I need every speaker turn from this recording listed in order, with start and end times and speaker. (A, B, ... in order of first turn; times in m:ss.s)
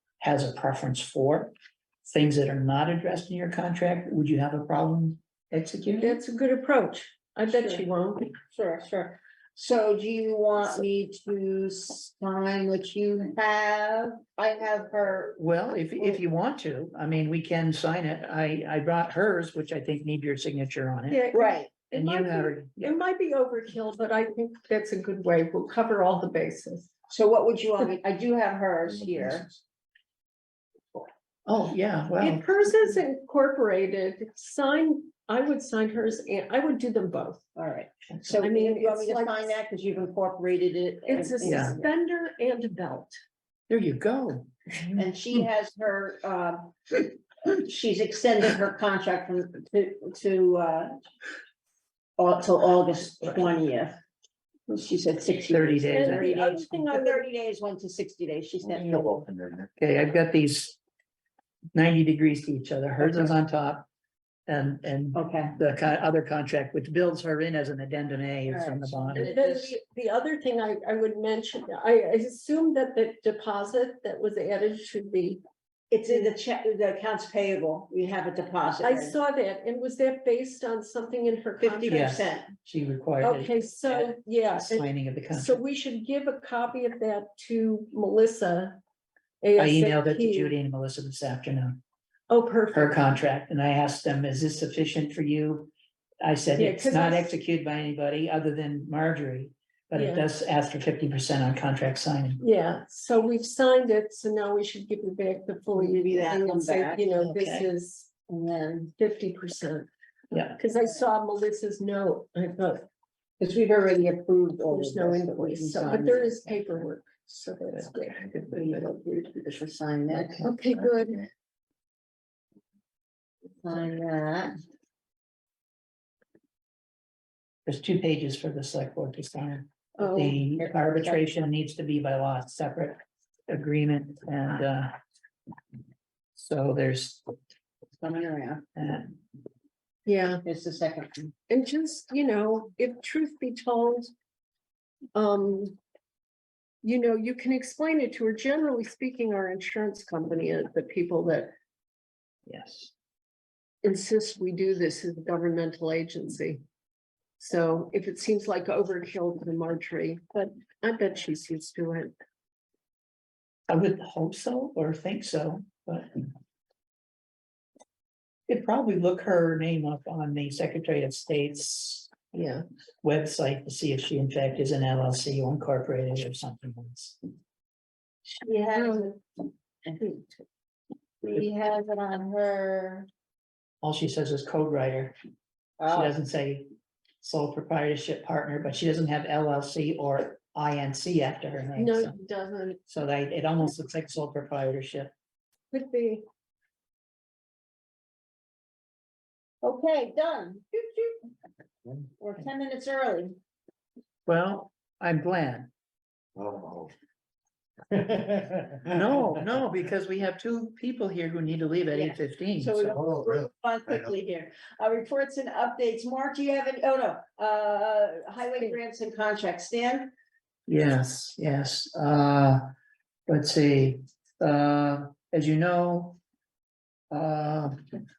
0:00.2-0:01.5 A
0:02.0-0:06.2 A
0:06.0-0:08.3 B
0:07.5-0:07.8 C
0:08.5-0:15.4 C
0:15.4-0:21.3 A
0:21.1-0:26.9 B
0:21.3-0:21.7 C
0:21.9-0:23.0 A
0:27.1-0:29.5 C
0:31.5-0:32.5 A
0:32.2-0:37.4 B
0:37.6-0:41.9 C
0:38.4-0:39.5 B
0:41.1-0:43.2 B
0:41.4-0:41.8 A
0:43.7-0:45.0 A
0:45.0-0:51.0 C
0:52.2-0:54.0 C
0:54.7-0:59.3 C
0:55.5-0:56.3 A
0:55.9-0:57.2 B
0:59.8-1:00.8 A
1:01.7-1:03.8 A
1:04.5-1:09.3 A
1:05.1-1:05.6 C
1:08.5-1:09.7 C
1:09.1-1:15.4 B
1:15.9-1:19.2 C
1:18.8-1:22.2 B
1:21.6-1:22.5 C
1:21.9-1:25.6 A
1:23.2-1:28.8 B
1:29.4-1:30.5 B
1:29.6-1:31.8 A
1:32.3-1:33.0 B
1:32.7-1:42.4 A
1:36.6-1:37.3 B
1:39.9-1:40.3 B
1:42.4-1:48.1 B
1:45.7-1:47.6 C
1:48.3-1:48.9 C
1:49.0-1:49.9 B
1:50.3-1:50.6 A
1:50.5-1:52.9 B
1:53.4-1:56.3 C
1:54.7-1:58.3 B
1:58.4-2:00.4 C
2:00.1-2:00.5 A
2:00.4-2:01.3 B
2:03.6-2:04.6 C
2:07.6-2:15.0 A
2:10.0-2:10.4 B
2:10.6-2:11.3 C
2:16.3-2:17.3 A
2:18.0-2:18.6 C
2:18.8-2:19.2 A
2:20.1-2:20.4 B
2:20.4-2:21.3 C
2:21.5-2:24.1 B
2:25.2-2:25.8 B
2:26.8-2:31.5 B
2:32.5-2:32.9 A
2:33.8-2:36.6 B
2:37.4-2:42.2 B
2:43.7-2:46.2 A
2:48.5-2:52.1 A
2:52.3-2:52.6 B
2:53.0-2:57.2 A
2:58.3-2:59.2 C
2:58.8-2:59.1 B
2:59.9-3:00.3 C
3:01.2-3:03.1 C
3:03.8-3:05.2 A
3:05.8-3:06.2 C
3:05.9-3:06.7 A
3:07.2-3:12.2 A
3:11.8-3:12.8 B
3:12.9-3:15.1 A
3:15.7-3:16.2 B
3:19.6-3:21.3 C
3:22.2-3:23.4 C
3:24.3-3:25.7 A
3:28.9-3:33.0 A
3:31.9-3:40.1 C
3:40.7-3:42.6 A
3:43.3-3:46.2 A
3:47.1-3:47.9 A